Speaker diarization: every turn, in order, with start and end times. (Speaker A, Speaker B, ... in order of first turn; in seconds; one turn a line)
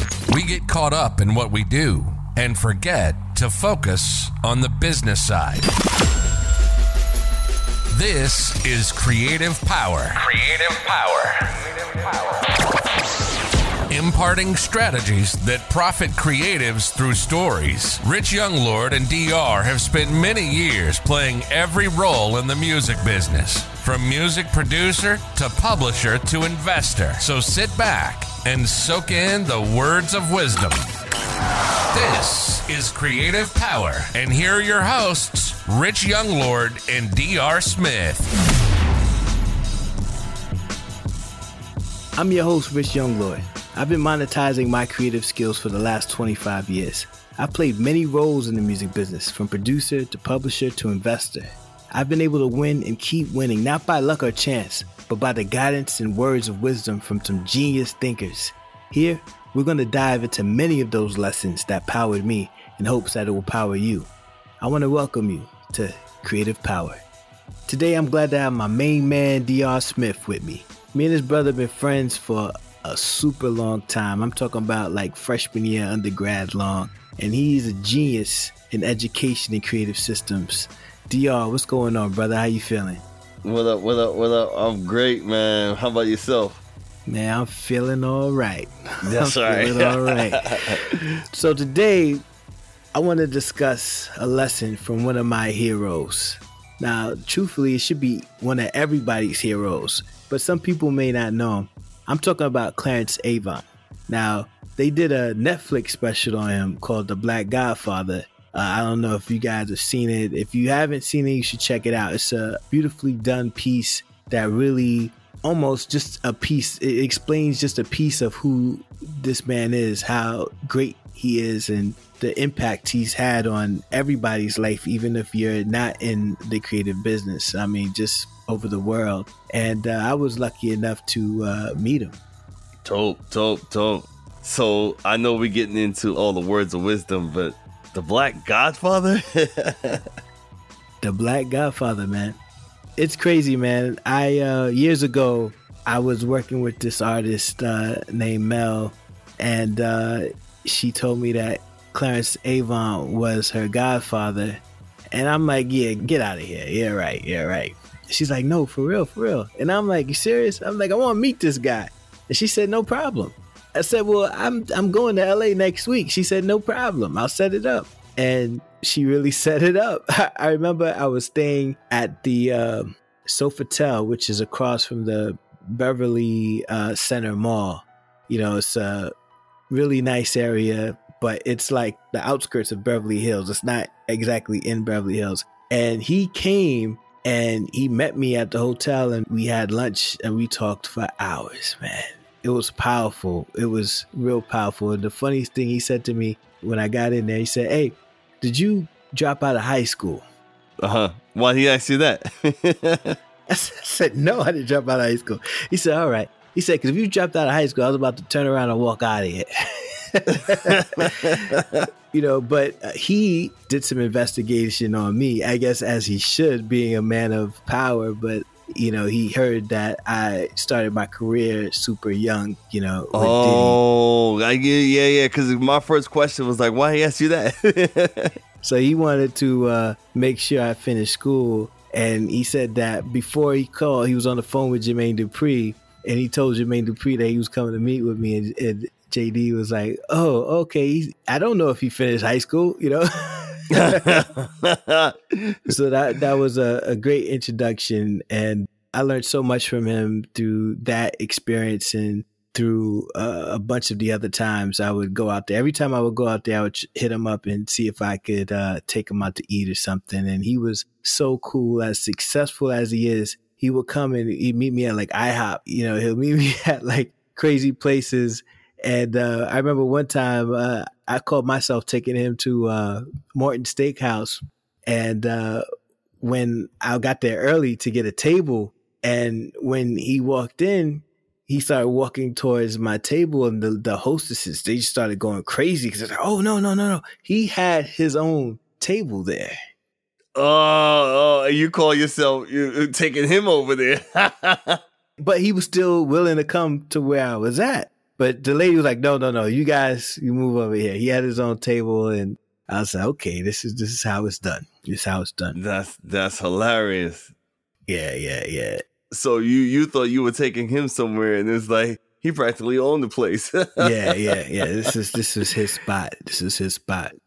Speaker A: 0.3-5.7
Speaker A: 7.9-11.6
Speaker A: 13.9-30.9
Speaker A: 31.9-38.3
Speaker B: 42.2-64.1
Speaker B: 64.6-67.0
Speaker B: 67.7-83.0
Speaker C: 83.4-86.6
Speaker B: 87.1-90.5
Speaker C: 89.0-91.0
Speaker B: 91.3-92.2
Speaker B: 92.9-132.2
Speaker C: 132.8-140.0
Speaker B: 141.0-142.4
Speaker B: 143.0-154.6
Speaker B: 155.1-179.1
Speaker B: 179.7-200.2
Speaker C: 200.8-203.2
Speaker B: 203.5-209.5
Speaker B: 210.1-210.7
Speaker C: 210.5-211.8
Speaker B: 212.1-223.8
Speaker C: 223.1-228.3
Speaker B: 228.6-243.1
Speaker C: 243.7-245.7
Speaker B: 243.9-244.2
Speaker B: 245.7-275.6
Speaker B: 276.2-289.5
Speaker C: 290.4-294.8
Speaker B: 295.2-305.6
Speaker C: 305.5-307.3
Speaker B: 307.9-308.8
Speaker C: 309.1-314.9
Speaker B: 313.8-317.1